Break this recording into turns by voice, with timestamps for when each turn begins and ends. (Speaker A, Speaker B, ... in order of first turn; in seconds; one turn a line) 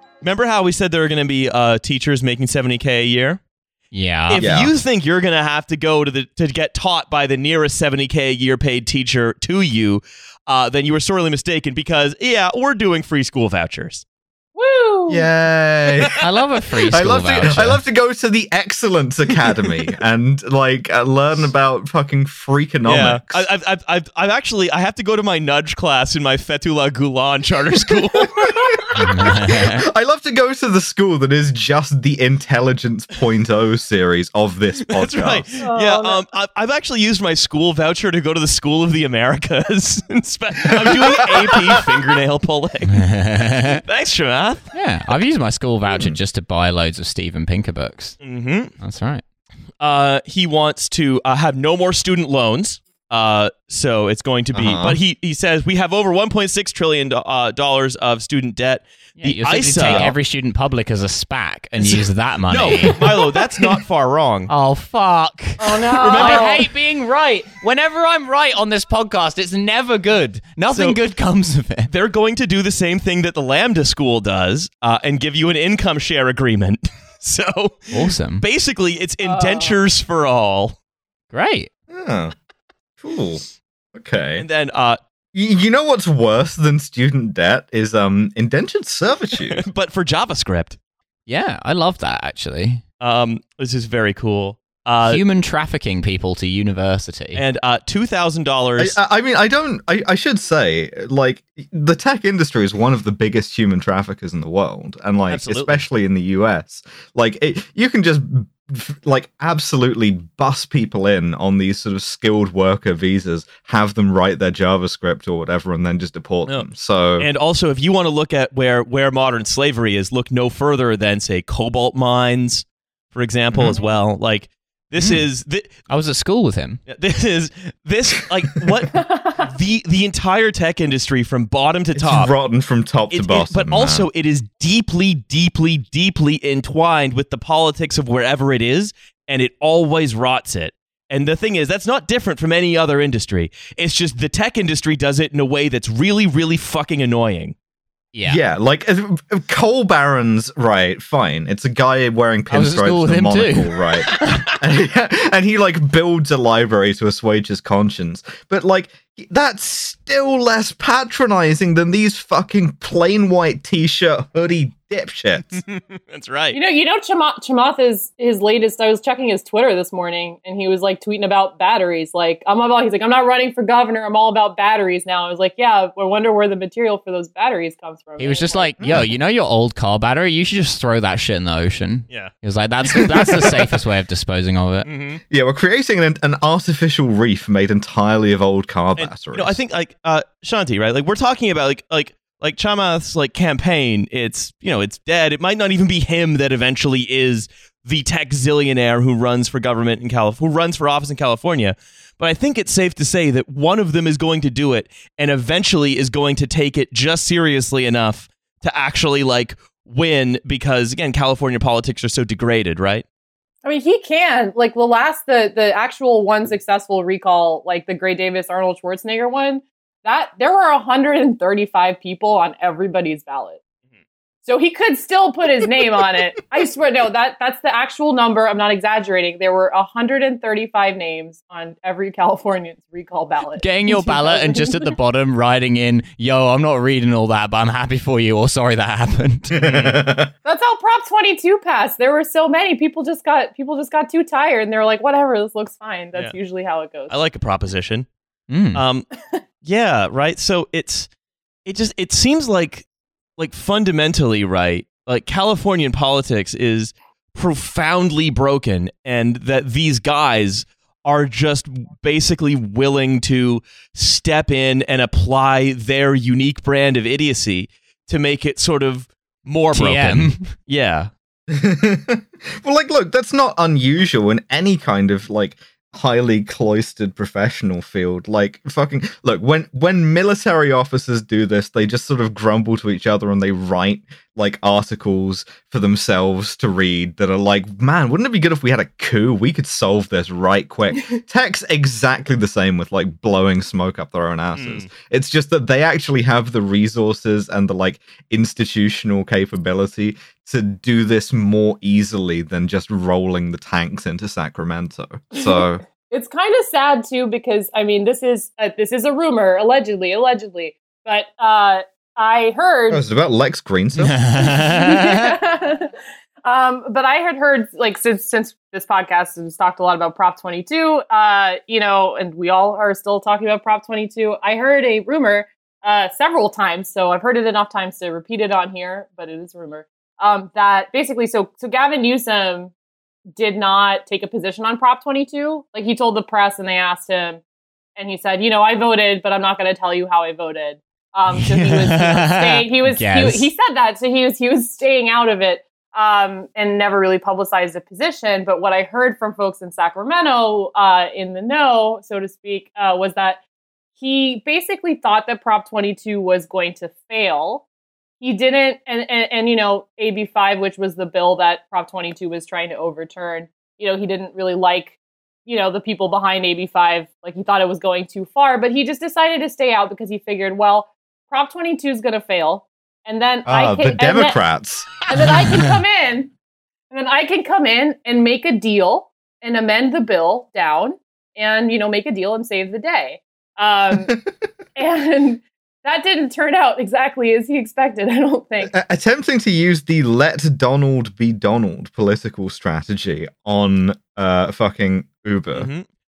Speaker A: 0.2-3.4
Speaker B: 3.9-4.4
Speaker A: 4.3-14.0
Speaker C: 4.4-4.7
Speaker D: 14.6-15.3
Speaker C: 15.1-16.1
Speaker B: 16.2-17.8
Speaker C: 16.9-23.4
Speaker A: 22.9-28.6
Speaker B: 28.9-29.8
Speaker C: 28.9-35.5
Speaker A: 34.9-43.1
Speaker D: 35.6-36.2
Speaker B: 43.0-43.8
Speaker A: 43.7-44.7
Speaker B: 44.7-48.2
Speaker C: 45.9-46.2
Speaker A: 48.2-48.7
Speaker B: 48.8-49.2
Speaker A: 49.8-60.2
Speaker C: 54.5-55.0
Speaker B: 59.2-63.2
Speaker C: 59.9-60.1
Speaker A: 61.8-64.5
Speaker B: 64.5-71.9
Speaker D: 65.6-66.7
Speaker A: 66.1-66.5
Speaker A: 70.7-71.0
Speaker A: 71.9-80.8
Speaker B: 77.9-78.5
Speaker D: 79.2-79.8
Speaker B: 81.3-81.7
Speaker C: 81.9-82.3
Speaker C: 83.0-83.4
Speaker C: 84.0-84.5
Speaker A: 84.4-85.0
Speaker C: 85.3-89.6
Speaker A: 89.5-90.8
Speaker B: 91.3-92.8
Speaker A: 93.0-95.2
Speaker B: 95.0-97.4
Speaker A: 97.3-99.0
Speaker C: 98.8-117.3
Speaker A: 105.3-105.9
Speaker A: 117.2-125.8
Speaker D: 123.7-124.0
Speaker B: 125.0-125.2
Speaker B: 125.9-126.8
Speaker A: 126.9-132.3
Speaker D: 129.0-129.4
Speaker C: 132.0-134.1
Speaker A: 133.1-147.6
Speaker B: 148.1-148.4
Speaker C: 148.3-165.6
Speaker B: 152.5-154.0
Speaker A: 165.5-166.6
Speaker D: 166.5-178.7
Speaker B: 178.2-184.9
Speaker C: 178.8-179.1
Speaker C: 182.9-183.8
Speaker A: 184.8-185.2
Speaker C: 185.3-189.6
Speaker A: 189.0-213.1
Speaker D: 213.6-223.6
Speaker D: 224.4-234.9
Speaker B: 233.6-239.6
Speaker A: 239.5-240.0
Speaker C: 239.6-240.3
Speaker D: 240.4-247.2
Speaker A: 247.1-248.1
Speaker B: 248.5-248.8
Speaker A: 248.7-249.1
Speaker A: 249.6-251.1
Speaker A: 251.7-271.1
Speaker B: 269.7-270.6
Speaker C: 271.5-305.8
Speaker A: 294.5-294.9
Speaker D: 305.4-313.0
Speaker C: 312.9-314.2
Speaker B: 314.0-315.2
Speaker D: 314.4-315.9
Speaker D: 316.4-332.7
Speaker D: 333.4-337.4
Speaker D: 338.0-353.4
Speaker B: 341.4-343.5
Speaker D: 354.0-357.6
Speaker D: 358.2-374.4
Speaker C: 373.5-375.0
Speaker D: 375.1-376.3
Speaker D: 376.9-384.1
Speaker D: 384.8-388.7
Speaker C: 388.6-395.7
Speaker A: 395.5-395.9